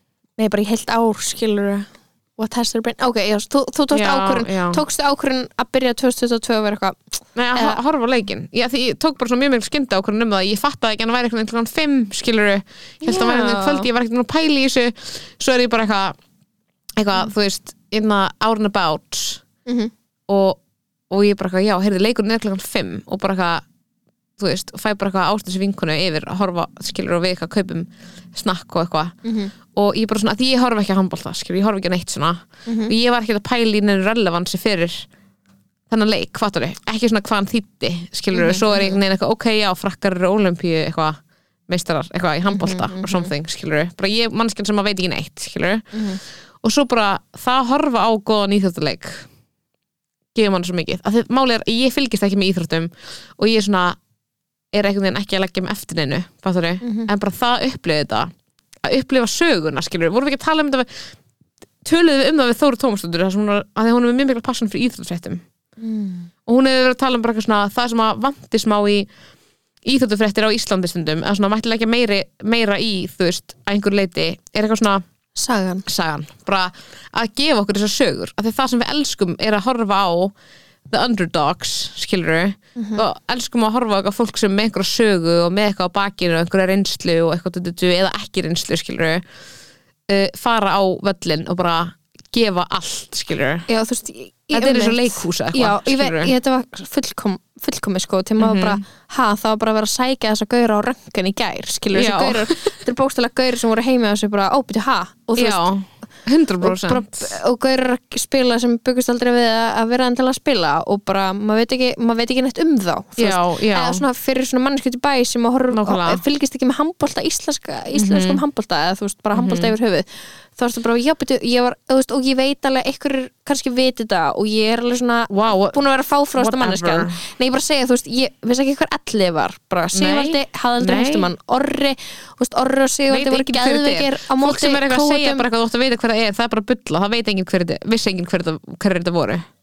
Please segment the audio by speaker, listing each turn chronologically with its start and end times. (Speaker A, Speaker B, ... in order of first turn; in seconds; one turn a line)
Speaker A: 0.4-7.0
Speaker B: 3.9-4.8
Speaker B: 7.3-16.2
Speaker A: 13.0-13.9
Speaker B: 17.0-19.4
Speaker A: 19.6-19.9
Speaker B: 20.3-20.6
Speaker B: 21.1-23.6
Speaker B: 24.4-29.1
Speaker A: 29.2-29.5
Speaker B: 29.7-35.0
Speaker A: 32.6-32.9
Speaker B: 35.9-45.9
Speaker A: 38.3-39.0
Speaker A: 42.5-43.3
Speaker A: 45.9-46.2
Speaker B: 46.6-49.3
Speaker B: 50.3-54.0
Speaker B: 54.7-58.3
Speaker A: 56.8-57.1
Speaker B: 58.8-61.1
Speaker B: 61.8-65.4
Speaker A: 65.8-66.3
Speaker B: 66.5-69.1
Speaker B: 69.8-75.0
Speaker A: 75.3-75.8
Speaker B: 75.8-80.3
Speaker B: 80.9-89.2
Speaker A: 82.8-83.0
Speaker B: 90.1-93.7
Speaker A: 93.7-105.7
Speaker B: 94.5-96.3
Speaker B: 98.4-98.8
Speaker B: 101.9-102.6
Speaker B: 105.4-107.3
Speaker A: 106.6-135.4
Speaker B: 113.2-114.0
Speaker B: 115.7-116.2
Speaker B: 117.9-118.4
Speaker B: 119.3-119.7
Speaker B: 125.3-125.8
Speaker B: 126.4-127.2
Speaker B: 129.9-131.3
Speaker B: 133.1-139.4